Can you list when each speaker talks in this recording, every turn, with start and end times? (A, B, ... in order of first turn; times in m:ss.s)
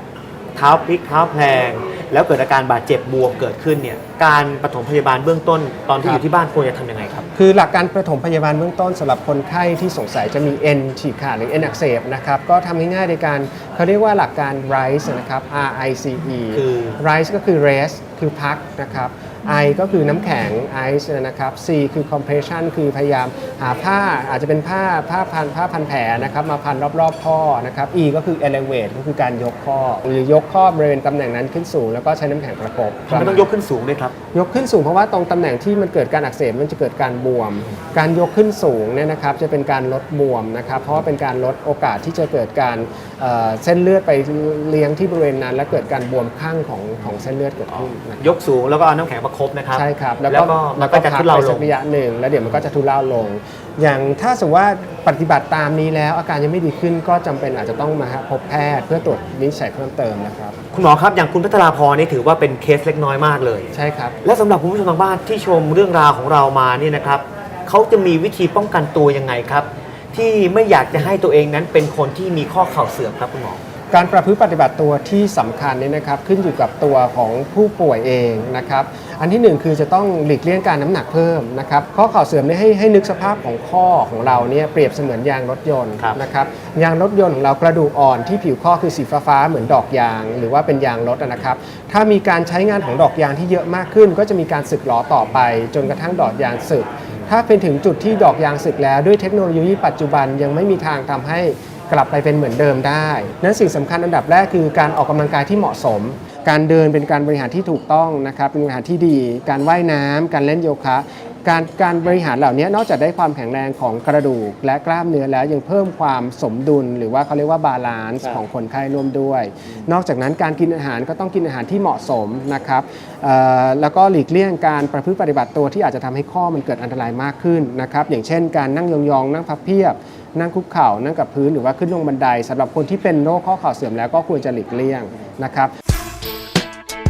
0:00.5-0:07.3 A
0:07.4-0:33.5 B
0:16.5-0:17.0 A
0:33.1-0:34.1 A
0:34.3-0:48.4 B
0:47.7-0:51.7 A
0:49.7-1:00.6 B
1:00.7-1:03.7 A
1:03.7-1:04.2 B
1:04.2-1:13.6 A
1:13.9-2:15.7 B